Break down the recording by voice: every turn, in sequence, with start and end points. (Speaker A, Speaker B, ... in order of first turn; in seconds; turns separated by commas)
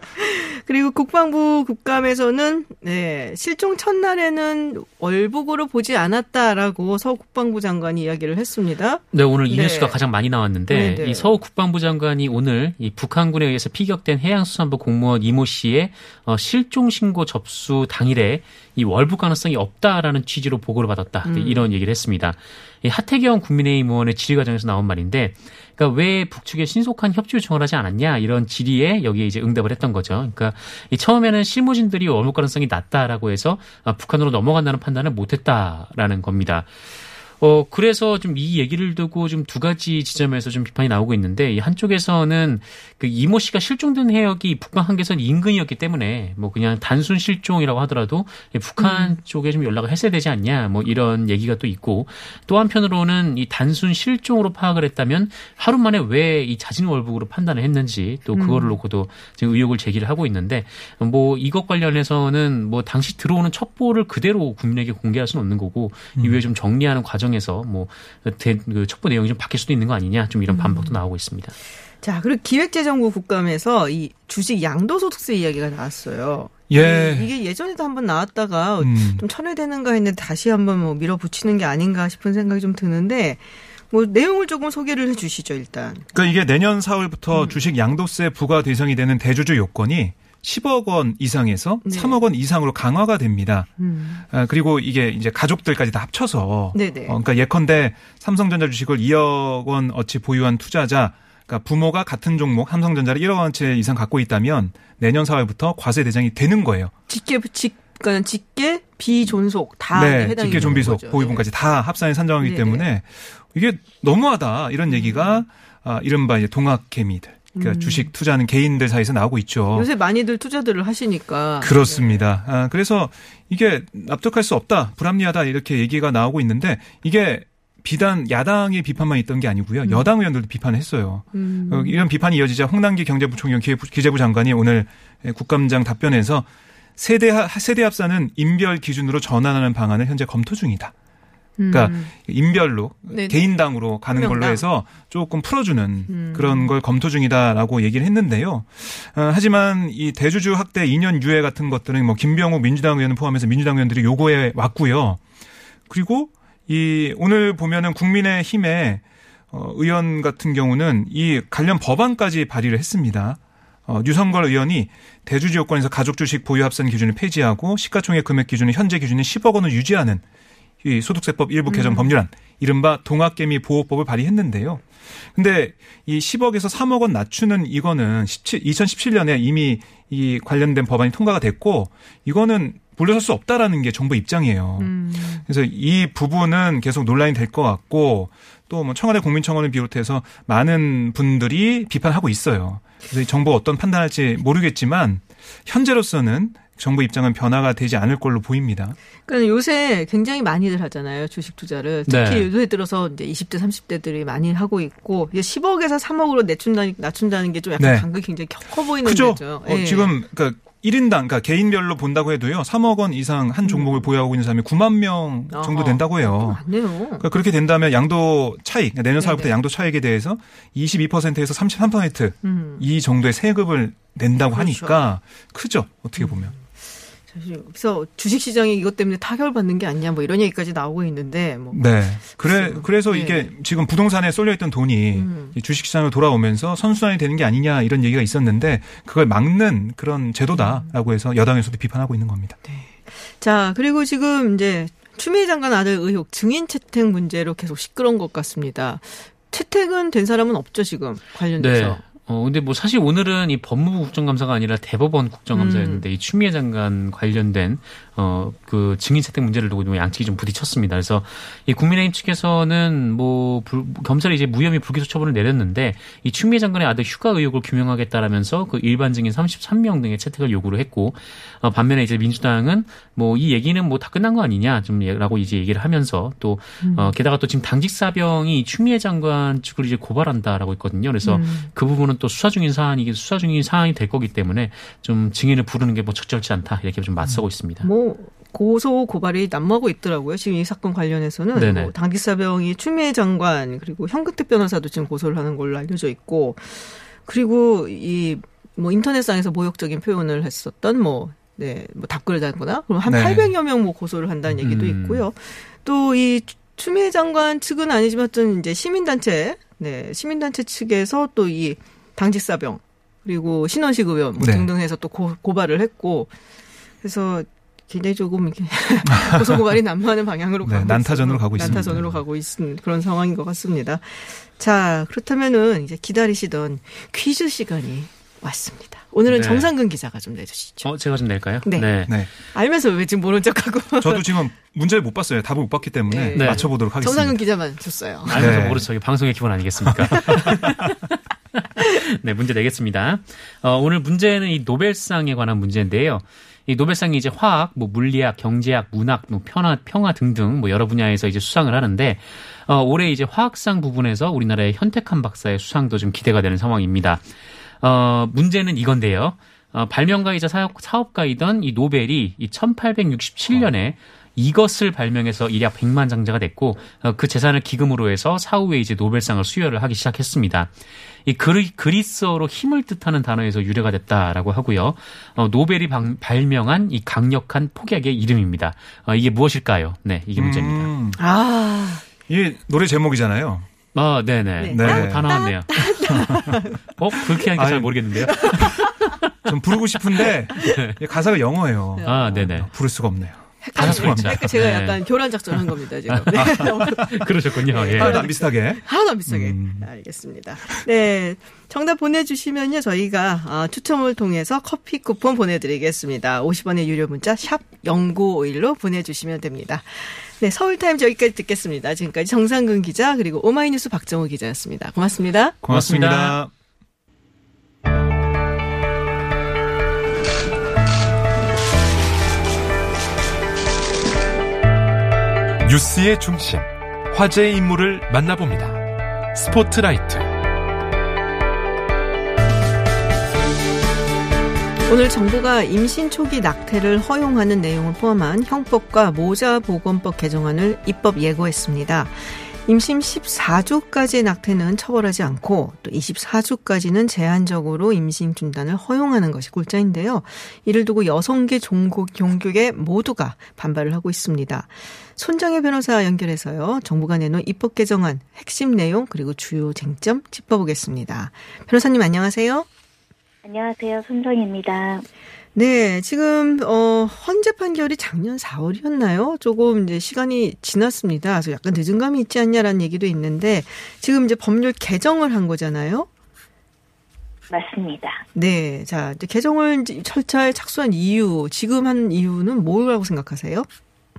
Speaker A: 0.2-10.0, Speaker B: 9.1-36.7, Speaker A: 10.7-11.3, Speaker A: 21.2-21.7, Speaker B: 37.4-71.5, Speaker A: 48.8-49.2, Speaker A: 58.3-58.8, Speaker A: 70.5-71.0, Speaker A: 72.0-86.1, Speaker C: 76.7-77.3, Speaker C: 78.8-79.2, Speaker C: 86.1-93.7, Speaker A: 87.3-87.7, Speaker A: 91.8-92.2, Speaker A: 93.8-94.2, Speaker C: 94.3-106.9, Speaker A: 96.7-97.2, Speaker A: 107.1-111.5, Speaker C: 109.9-119.9, Speaker A: 112.4-112.9, Speaker A: 114.9-115.5, Speaker A: 117.5-118.1, Speaker A: 119.7-122.3, Speaker C: 121.6-140.9, Speaker A: 129.8-130.1, Speaker A: 131.3-132.1, Speaker A: 141.6-142.1, Speaker C: 141.7-155.2, Speaker A: 143.1-143.5, Speaker A: 144.1-144.6, Speaker A: 146.1-146.8, Speaker C: 155.9-170.2, Speaker C: 170.8-199.0, Speaker A: 171.7-172.1, Speaker A: 184.8-185.5, Speaker A: 199.3-210.1, Speaker B: 202.1-202.5, Speaker C: 207.8-208.1, Speaker C: 209.0-216.6, Speaker A: 213.6-214.1, Speaker A: 215.5-217.2, Speaker C: 217.2-226.6, Speaker A: 219.2-219.6, Speaker A: 222.4-222.8, Speaker A: 224.5-225.1, Speaker A: 226.2-233.5, Speaker C: 231.7-242.6, Speaker A: 235.1-235.6, Speaker A: 240.5-240.9, Speaker A: 242.7-252.0, Speaker B: 251.6-287.9, Speaker A: 255.5-256.1, Speaker A: 276.8-277.1, Speaker A: 281.2-281.7, Speaker A: 287.8-316.3, Speaker B: 291.5-291.9, Speaker C: 303.1-303.5, Speaker B: 304.6-305.2, Speaker C: 314.4-314.7, Speaker A: 317.0-330.9, Speaker C: 319.2-319.5, Speaker C: 320.6-322.1, Speaker B: 321.6-321.9, Speaker B: 329.3-329.7, Speaker B: 330.8-332.2, Speaker A: 331.6-334.4, Speaker C: 334.0-337.4, Speaker A: 336.1-338.7, Speaker B: 336.3-336.7, Speaker B: 338.2-341.0, Speaker C: 338.3-338.9, Speaker C: 340.1-340.6, Speaker A: 340.3-340.8, Speaker B: 341.6-357.3, Speaker B: 357.8-370.7, Speaker B: 371.2-380.9, Speaker C: 380.4-381.2, Speaker A: 381.2-382.0, Speaker C: 382.3-383.7, Speaker B: 383.9-388.8, Speaker A: 384.6-387.3, Speaker C: 384.7-386.6, Speaker C: 387.6-388.6, Speaker A: 388.2-389.1, Speaker C: 389.4-394.5, Speaker A: 390.2-390.5, Speaker B: 390.6-390.9, Speaker A: 391.9-392.6, Speaker B: 392.0-392.7, Speaker A: 393.6-415.6, Speaker B: 393.8-398.3, Speaker C: 396.3-397.2, Speaker C: 397.9-399.9, Speaker C: 415.6-416.5, Speaker B: 415.7-416.4, Speaker D: 425.6-430.3, Speaker A: 434.9-462.7, Speaker E: 463.4-465.1, Speaker A: 465.6-476.1, Speaker E: 477.5-478.2, Speaker A: 478.4-483.7